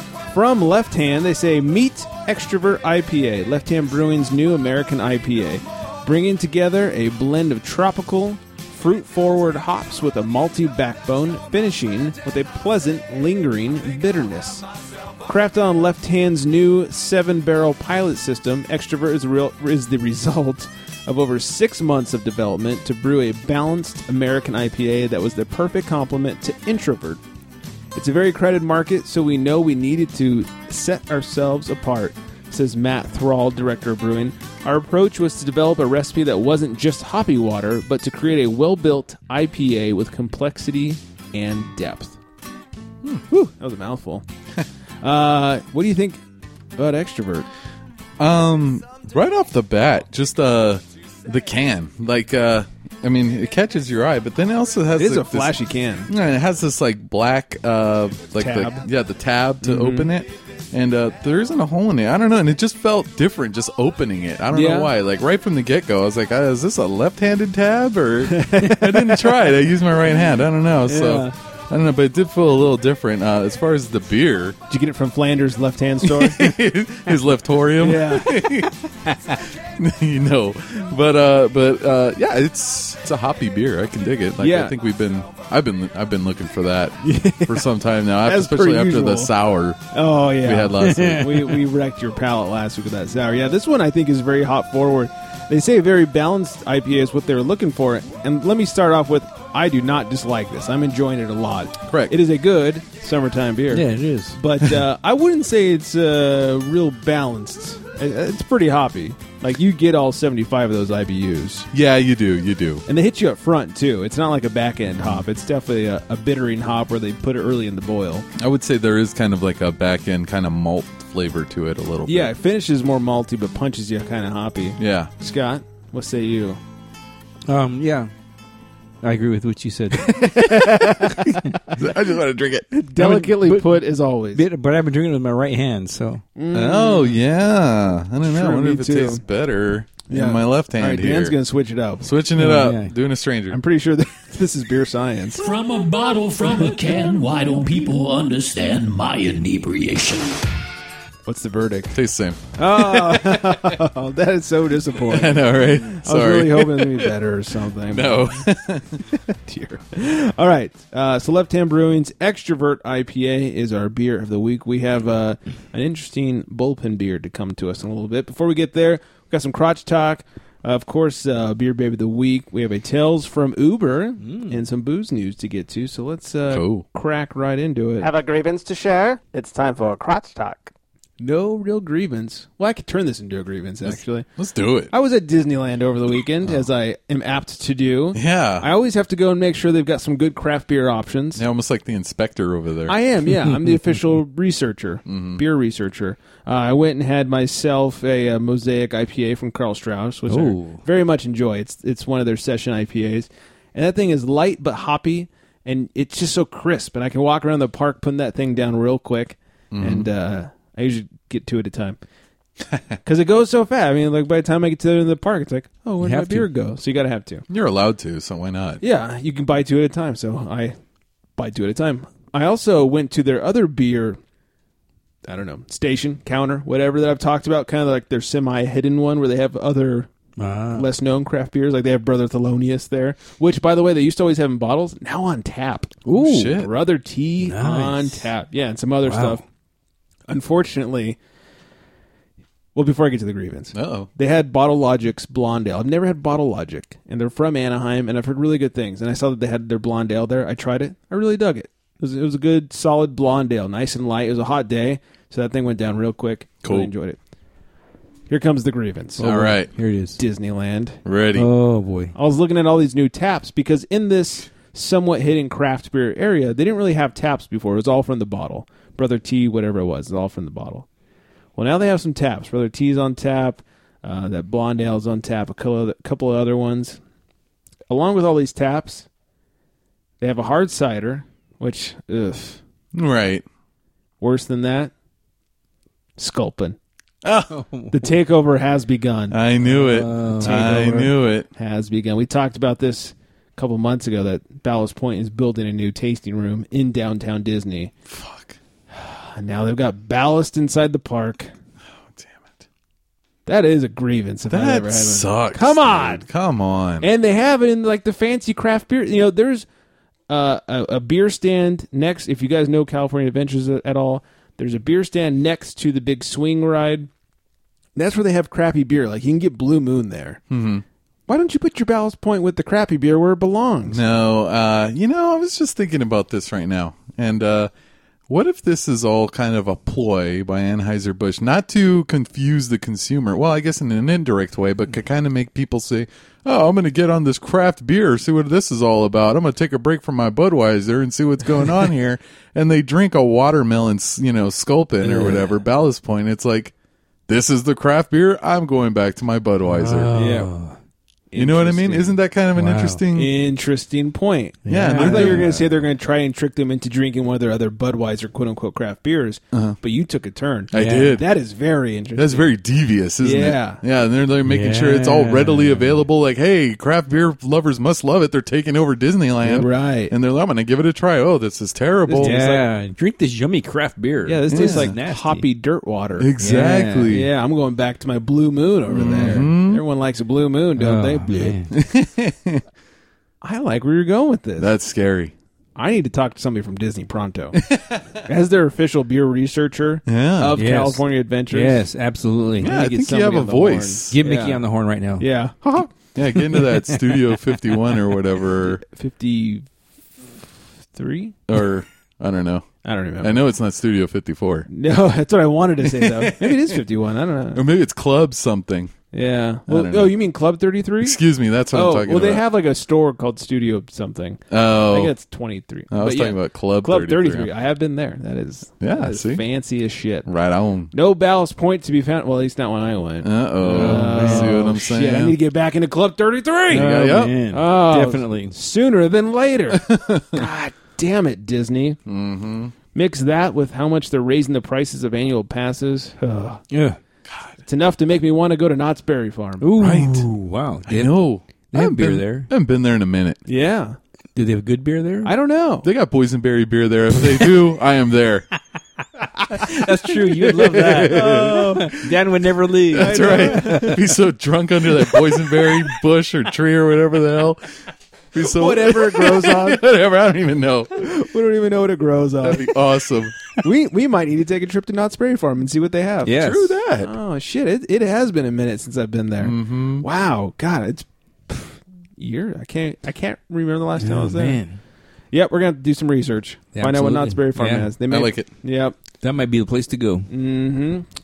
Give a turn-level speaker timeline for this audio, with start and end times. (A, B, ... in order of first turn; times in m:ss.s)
0:00.3-0:14.6 A
0:15.2-0:27.2 A
0:27.9-0:42.2 A
0:43.3-0:44.2 A
0:45.0-0:46.2 A
0:46.8-0:47.5 A
0:48.2-0:55.5 B
0:55.0-0:56.1 A
0:56.1-1:14.6 B
0:58.4-0:58.8 A
0:59.6-1:00.1 A
1:04.5-1:04.9 A
1:08.3-1:09.4 A
1:10.8-1:11.3 A
1:14.7-1:16.5 A
1:16.0-1:18.7 B
1:17.8-1:18.5 A
1:19.6-1:31.3 B
1:24.4-1:24.7 A
1:27.0-1:27.7 A
1:28.2-1:29.3 A
1:29.9-1:51.7 A
1:30.8-1:31.6 C
1:41.8-1:42.2 B
1:43.7-1:44.4 C
1:51.7-1:52.8 B
1:52.9-1:58.3 A
1:58.4-2:02.3 B
2:02.0-2:06.6 A
2:04.8-2:05.1 B
2:07.5-2:08.1 C
2:09.0-2:11.3 C
2:10.0-2:11.4 A
2:11.7-2:12.7 B
2:12.7-2:14.4 A
2:13.0-2:13.8 C
2:14.3-2:16.2 C
2:16.4-2:17.2 A
2:16.5-2:21.4 B
2:18.2-2:19.2 A
2:20.1-2:22.1 A
2:22.0-2:23.6 B
2:22.4-2:22.9 C
2:23.5-2:25.4 A
2:25.4-2:30.4 D
2:31.2-2:32.0 A
2:31.9-2:33.8 B
2:32.6-2:38.3 A
2:35.0-2:37.1 B
2:37.8-2:39.0 B
2:39.1-2:58.1 A
2:54.2-2:54.6 C
2:56.5-2:56.8 B
2:58.0-3:00.7 E
3:01.2-3:04.3 A
3:03.8-3:04.9 B
3:04.9-3:11.4 A
3:08.1-3:08.7 B
3:11.3-3:13.0 B
3:12.9-3:32.0 A
3:13.5-3:14.0 C
3:15.1-3:15.4 B
3:20.3-3:20.8 C
3:29.7-3:30.1 B
3:33.0-3:37.4 A
3:36.0-3:36.5 C
3:37.5-3:38.8 B
3:38.8-3:40.7 A
3:41.4-3:44.2 A
3:45.3-3:50.1 A
3:50.4-3:50.9 C
3:50.7-3:59.4 A
3:56.1-3:56.5 C
3:56.1-3:56.7 B
3:57.4-3:58.3 C
3:59.0-3:59.4 C
4:00.3-4:01.2 A
4:02.7-4:17.2 A
4:03.7-4:04.1 B
4:16.6-4:16.9 B
4:18.3-4:19.3 A
4:19.2-4:20.2 C
4:19.2-4:19.7 B
4:20.2-4:21.0 A
4:21.0-4:21.5 B
4:21.3-4:22.1 C
4:22.1-4:30.8 A
4:31.6-4:37.0 A
4:37.9-4:39.1 A
4:40.2-4:42.6 A
4:42.9-4:43.4 B
4:44.2-4:44.9 A
4:46.2-4:46.8 A
4:47.2-4:47.6 B
4:47.5-4:48.1 C
4:47.9-4:49.4 A
4:49.3-4:51.5 B
4:49.6-4:50.6 C
4:50.4-4:57.9 A
4:58.1-4:58.6 B
4:58.9-5:01.5 A
5:02.0-5:02.6 B
5:03.4-5:06.2 A
5:04.5-5:07.1 B
5:07.0-5:09.6 A
5:10.3-5:17.1 A
5:17.9-5:20.4 A
5:20.5-5:20.8 B
5:21.3-5:24.1 A
5:23.9-5:27.7 B
5:28.3-5:46.7 B
5:45.0-5:45.6 C
5:47.3-5:50.1 B
5:49.7-5:50.7 C
5:50.1-5:50.5 A
5:51.3-5:52.2 A
5:51.4-5:53.3 B
5:52.5-5:53.0 C
5:53.1-6:02.5 A
5:54.6-5:55.6 C
5:54.7-5:55.6 B
5:59.5-5:59.8 B
6:00.7-6:01.2 B
6:00.7-6:01.1 C
6:02.1-6:12.4 B
6:03.2-6:03.8 A
6:04.4-6:06.0 C
6:09.4-6:10.1 A
6:12.0-6:12.7 A
6:12.2-6:15.5 C
6:14.2-6:21.5 A
6:14.5-6:14.9 B
6:16.2-6:17.3 B
6:16.4-6:17.1 C
6:18.9-6:19.8 B
6:20.8-6:21.7 C
6:21.7-6:22.6 B
6:23.4-6:24.7 A
6:24.6-6:25.3 B
6:25.8-6:27.6 A
6:27.6-6:28.0 B
6:28.2-6:31.8 A
6:30.0-6:30.6 B
6:30.6-6:32.8 C
6:32.6-6:34.2 B
6:32.6-6:34.6 A
6:34.1-6:35.2 C
6:35.2-6:35.9 A
6:36.1-6:38.8 B
6:36.5-6:37.3 C
6:38.8-6:39.6 A
6:40.9-6:41.4 A
6:41.5-6:42.7 B
6:42.8-6:43.4 A
6:43.2-6:44.7 B
6:44.7-6:47.6 A
6:45.8-6:46.8 B
6:47.5-6:48.9 B
6:49.1-6:51.2 A
6:49.7-6:50.2 B
6:51.0-6:52.4 B
6:51.7-7:00.3 A
6:54.5-6:55.1 B
6:55.9-6:57.5 B
6:58.8-6:59.4 B
7:00.2-7:00.9 B
7:00.9-7:06.9 A
7:03.2-7:05.4 B
7:03.6-7:04.6 C
7:06.7-7:07.4 B
7:06.7-7:08.5 C
7:07.5-7:12.0 A
7:09.7-7:10.4 B
7:12.0-7:12.7 B
7:12.9-7:16.6 A
7:16.7-7:17.0 C
7:17.6-7:19.7 A
7:19.6-7:22.5 C
7:19.8-7:20.3 B
7:20.8-7:23.4 B
7:23.4-7:24.0 A
7:24.3-7:25.3 C
7:25.2-7:25.9 A
7:25.8-7:28.5 B
7:29.5-7:34.0 C
7:30.6-7:32.0 A
7:30.6-7:32.1 B
7:32.9-7:37.6 B
7:32.9-7:34.0 A
7:38.3-7:41.1 B
7:38.4-7:39.8 A
7:41.0-7:42.7 A
7:42.4-7:43.4 B
7:43.6-7:46.3 A
7:46.2-7:46.8 C
7:46.3-7:47.1 B
7:47.0-7:54.6 A
7:49.4-7:50.0 B
7:54.0-7:54.8 C
7:55.3-7:58.9 A
7:56.7-7:57.9 C
7:58.1-7:58.5 B
7:59.2-8:00.3 C
8:00.3-8:01.0 A